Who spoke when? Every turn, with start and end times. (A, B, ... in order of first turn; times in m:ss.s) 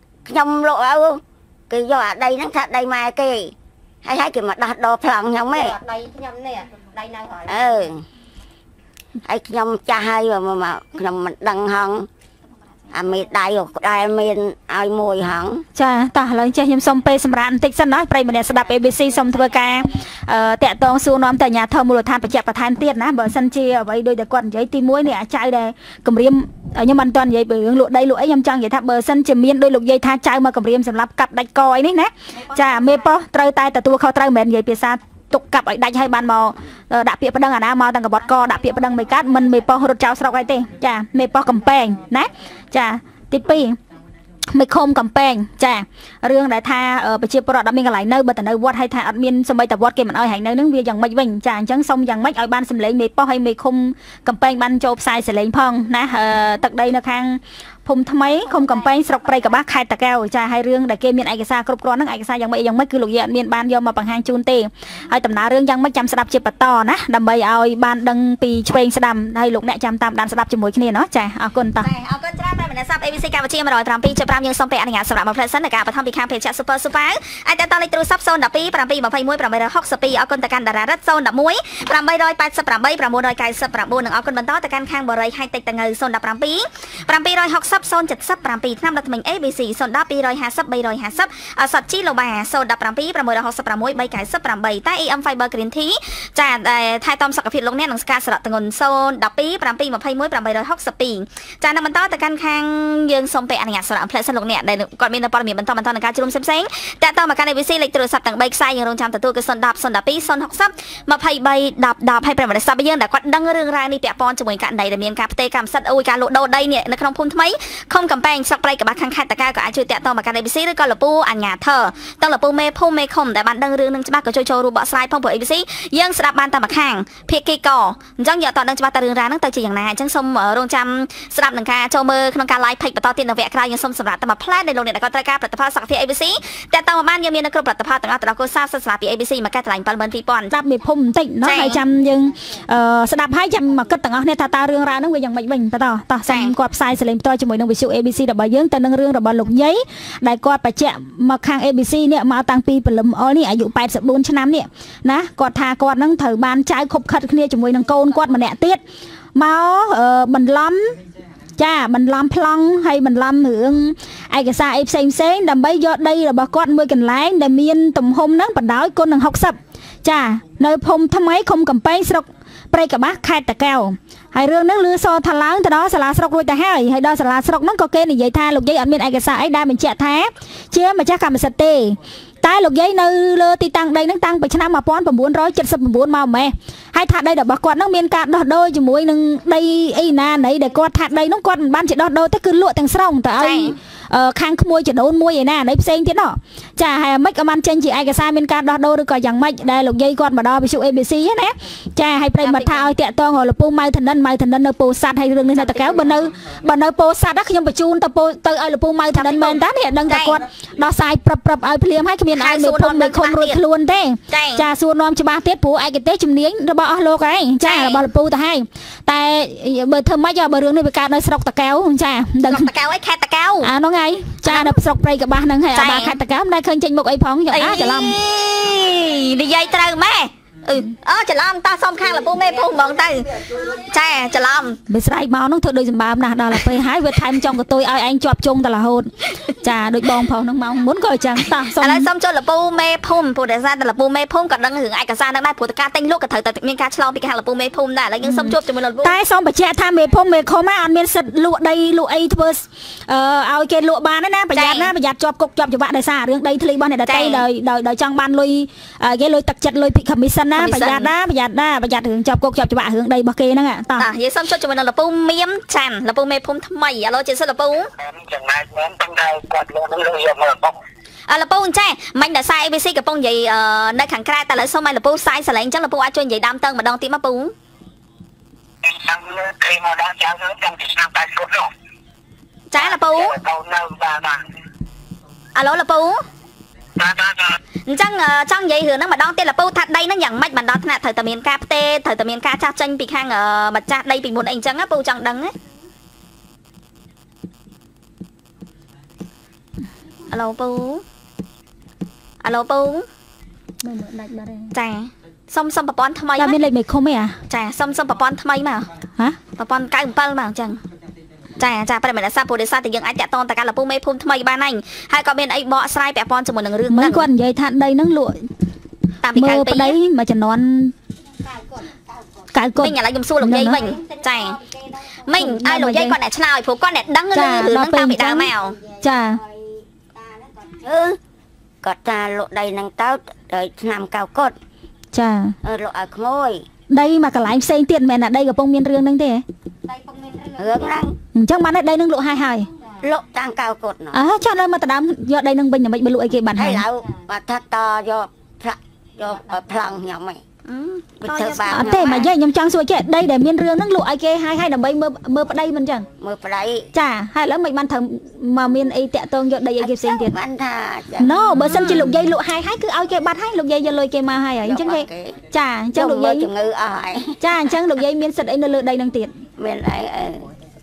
0:00.2-0:05.8 A
0:05.5-0:07.9 B
0:07.5-0:08.0 A
0:09.2-0:12.1 A
0:12.9-0:15.6 A
0:15.7-0:43.8 C
0:32.6-0:32.9 D
0:44.5-1:11.9 C
1:11.8-2:20.5 D
2:20.5-2:38.8 C
2:21.4-2:21.8 D
2:26.3-2:26.5 D
2:39.3-2:41.0 C
2:41.6-3:42.7 C
3:13.4-3:13.7 D
3:22.4-3:22.9 D
3:25.6-3:26.2 D
3:29.2-3:30.4 D
3:32.4-3:33.6 D
3:34.3-3:34.6 D
3:37.6-3:38.0 D
3:42.5-3:43.7 D
3:43.6-3:48.2 C
3:44.4-3:44.8 D
3:45.7-3:46.2 D
3:47.5-3:54.8 D
3:54.9-4:02.1 C
4:01.6-4:09.2 D
4:08.2-4:24.1 C
4:14.5-4:14.9 D
4:17.1-4:17.4 D
4:20.5-4:21.1 D
4:24.0-4:27.9 D
4:28.0-4:30.8 E
4:31.3-4:37.5 D
4:38.8-4:41.7 E
4:42.7-4:43.4 D
4:42.8-4:44.4 E
4:45.5-4:46.2 D
4:47.0-4:47.6 E
4:47.8-4:55.5 D
5:00.3-5:01.0 D
5:02.4-5:03.1 D
5:03.8-5:04.7 C
5:04.7-5:06.6 D
5:06.4-5:07.4 C
5:07.5-5:08.9 D
5:09.5-5:10.8 D
5:11.6-5:17.3 D
5:16.9-5:18.5 C
5:19.2-5:20.0 D
5:19.3-5:20.9 C
5:21.4-5:22.5 B
5:22.5-5:23.8 C
5:22.8-5:24.6 D
5:23.6-5:25.3 B
5:25.1-5:28.8 D
5:25.3-5:26.2 C
5:27.3-5:28.5 C
5:28.6-5:30.9 B
5:29.0-5:29.4 C
5:30.8-5:31.2 A
5:31.8-5:34.6 A
5:35.1-5:35.6 C
5:35.6-5:36.6 A
5:36.9-5:39.4 C
5:39.8-5:41.0 B
5:40.6-5:41.2 A
5:41.3-5:42.7 C
5:42.8-5:43.1 B
5:43.0-5:44.2 A
5:44.1-5:46.8 C
5:46.5-5:50.4 A
5:47.0-5:47.3 B
5:49.2-5:49.6 B
5:50.6-5:52.2 D
5:51.2-5:52.3 A
5:51.7-5:56.1 C
5:56.2-5:56.9 A
5:56.9-6:00.4 C
5:59.8-6:02.0 A
6:01.2-6:06.5 C
6:01.7-6:02.0 D
6:04.6-6:05.4 A
6:05.9-6:07.4 A
6:07.4-6:09.4 C
6:09.6-6:10.5 A